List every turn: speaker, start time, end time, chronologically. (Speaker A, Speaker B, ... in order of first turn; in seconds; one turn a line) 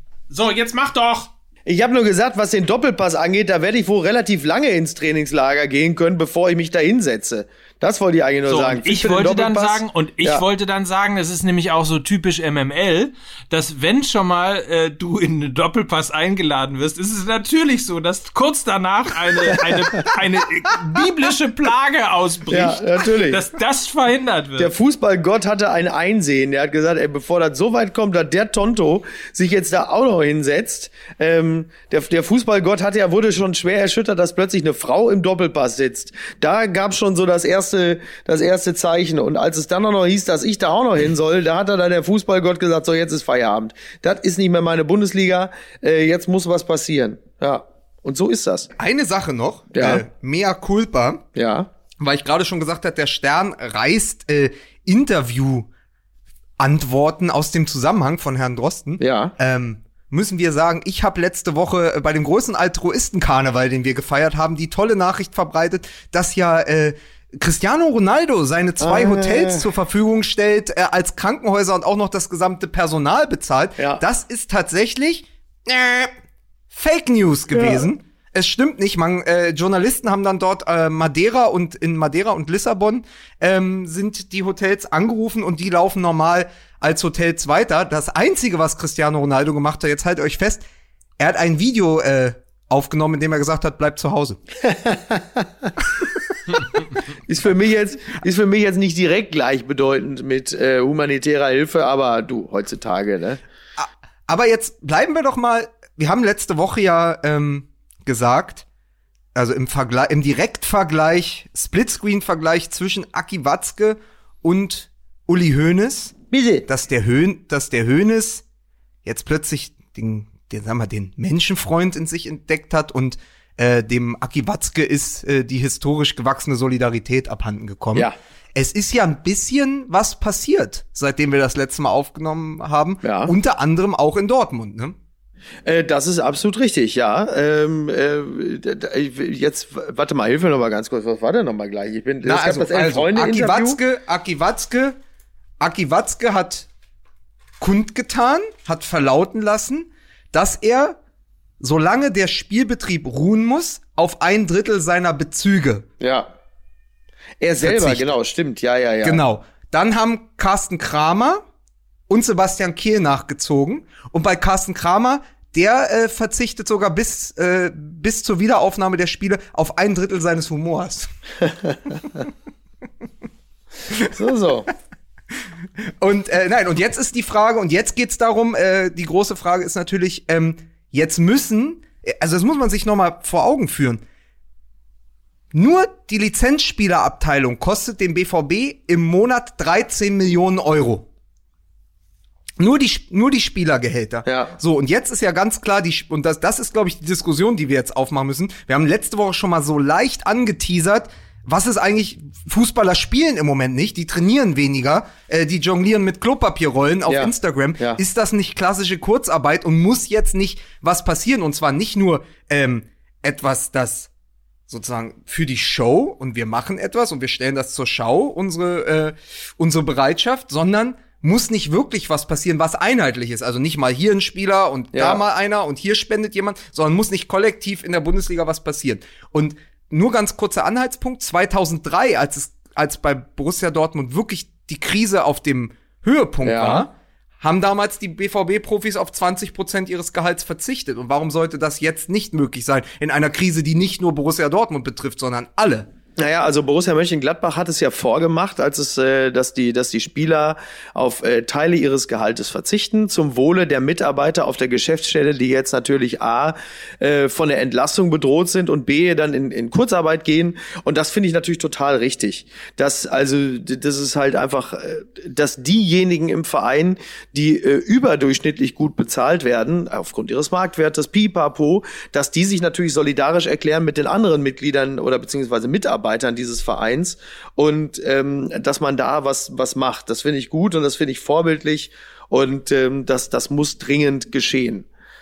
Speaker A: 0.3-1.3
Speaker B: 1.7-10.4
Speaker A: 8.4-24.7
Speaker B: 19.6-20.0
Speaker B: 22.5-23.4
Speaker B: 24.6-48.7
Speaker C: 48.8-51.2
Speaker B: 49.7-50.0
Speaker B: 51.4-51.7
Speaker C: 52.0-55.7
Speaker C: 56.6-76.1
Speaker B: 59.0-59.3
Speaker B: 68.8-69.7
Speaker C: 76.7-90.6
Speaker B: 77.5-77.9
Speaker C: 91.2-94.4
Speaker B: 94.6-95.7
Speaker B: 97.3-103.4
Speaker C: 103.8-108.7
Speaker C: 109.3-118.4
Speaker B: 116.3-116.7
Speaker C: 119.0-135.0
Speaker B: 133.0-133.3
Speaker B: 135.7-143.8
Speaker C: 142.2-145.0
Speaker C: 145.6-146.7
Speaker C: 147.6-151.0
Speaker C: 151.6-155.8
Speaker B: 156.0-156.3
Speaker B: 157.4-159.2
Speaker C: 157.6-158.1
Speaker C: 159.0-161.4
Speaker C: 162.1-171.1
Speaker B: 171.4-171.8
Speaker B: 174.1-174.7
Speaker C: 176.0-184.0
Speaker C: 185.5-191.1
Speaker C: 192.6-214.1
Speaker B: 194.3-194.6
Speaker B: 207.1-208.0
Speaker C: 214.7-245.9
Speaker B: 224.9-225.2
Speaker B: 236.4-236.9
Speaker B: 246.2-284.9